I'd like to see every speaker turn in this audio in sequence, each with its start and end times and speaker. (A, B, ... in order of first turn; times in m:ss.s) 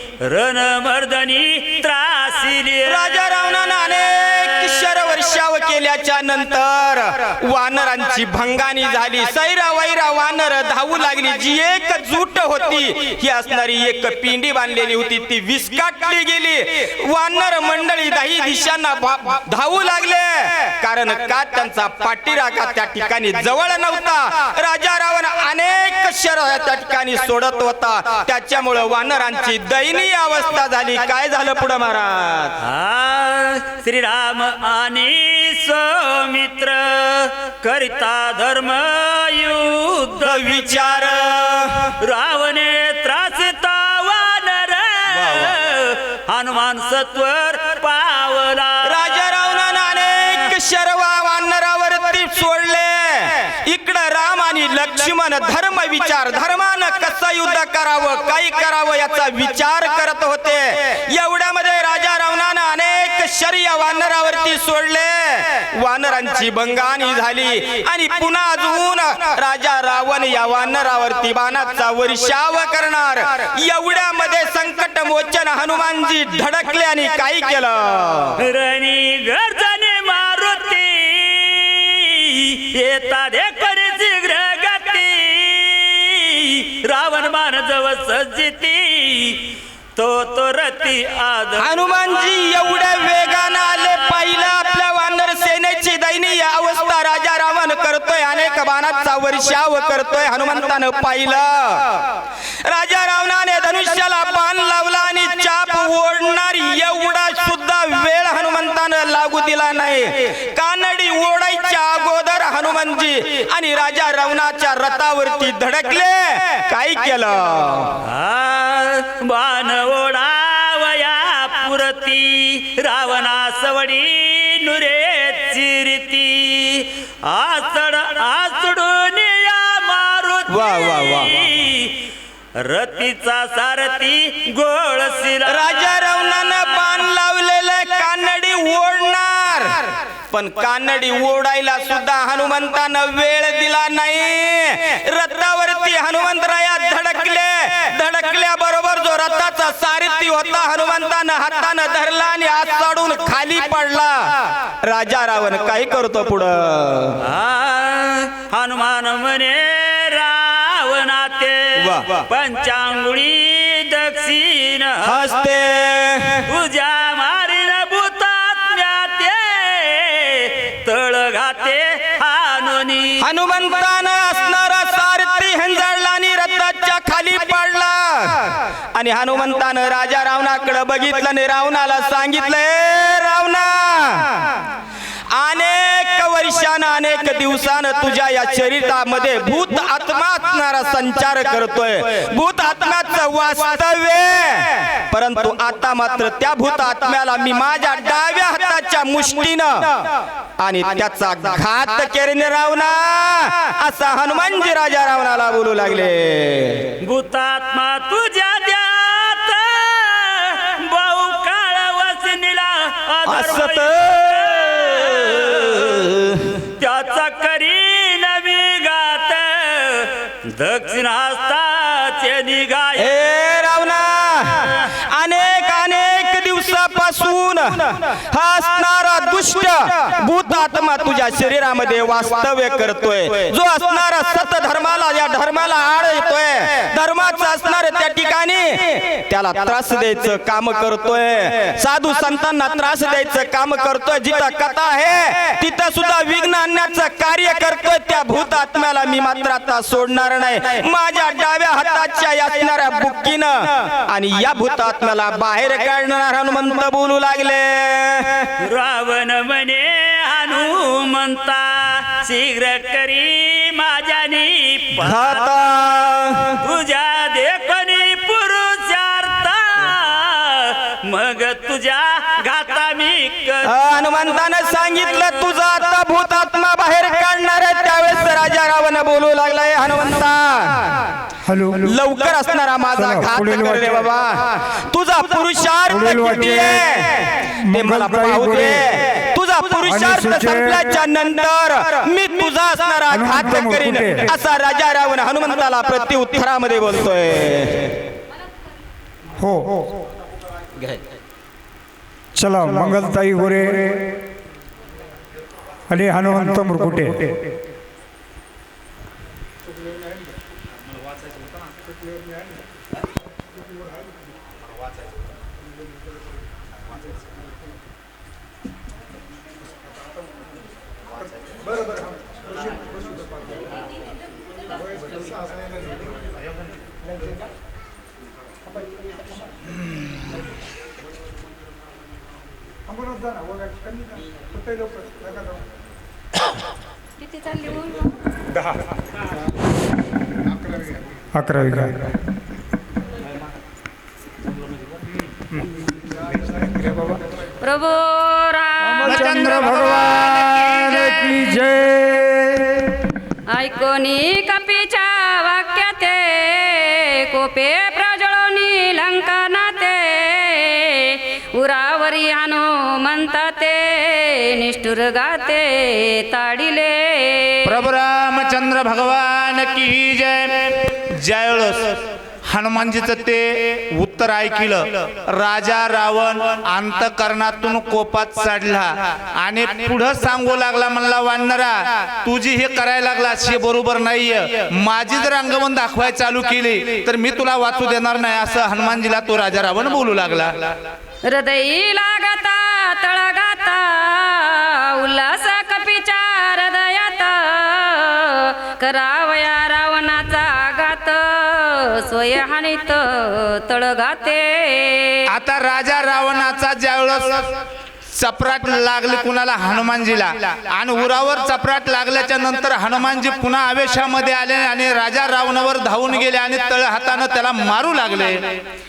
0:00.2-0:03.2 A
0:02.9-0:32.6 B
0:32.6-0:49.3 A
0:40.2-0:41.9 B
0:45.1-0:45.6 B
0:48.8-1:18.4 B
1:18.4-1:31.8 A
1:31.6-1:42.1 B
1:42.6-1:58.0 B
1:58.0-2:12.0 A
2:10.5-2:11.3 B
2:12.6-2:16.3 A
2:15.5-2:37.2 B
2:37.2-2:45.4 A
2:41.8-2:42.2 B
2:45.0-2:46.4 B
2:46.5-2:53.3 A
2:53.2-3:04.6 B
3:05.3-3:26.9 B
3:27.0-3:43.2 A
3:33.2-3:36.5 B
3:43.0-4:18.5 B
4:18.6-4:25.5 A
4:25.0-4:26.6 B
4:26.6-4:33.8 A
4:33.6-4:41.1 B
4:41.5-4:41.9 C
4:41.8-4:58.1 B
4:43.0-4:43.9 C
4:45.9-4:46.9 C
4:47.6-4:48.9 C
4:49.9-4:50.9 C
4:53.1-4:54.4 C
4:59.4-4:59.9 C
5:02.4-5:04.2 C
5:05.9-5:07.4 C
5:33.0-5:34.2 C
5:34.7-5:35.3 C
5:37.2-5:38.1 D
5:41.3-5:42.2 C
5:46.8-5:47.1 C
5:47.6-5:49.8 D
5:49.0-5:52.7 E
5:53.5-6:07.8 D
6:07.6-6:30.8 E
6:31.2-6:45.3 D
6:45.3-6:47.5 E
6:48.1-6:58.6 E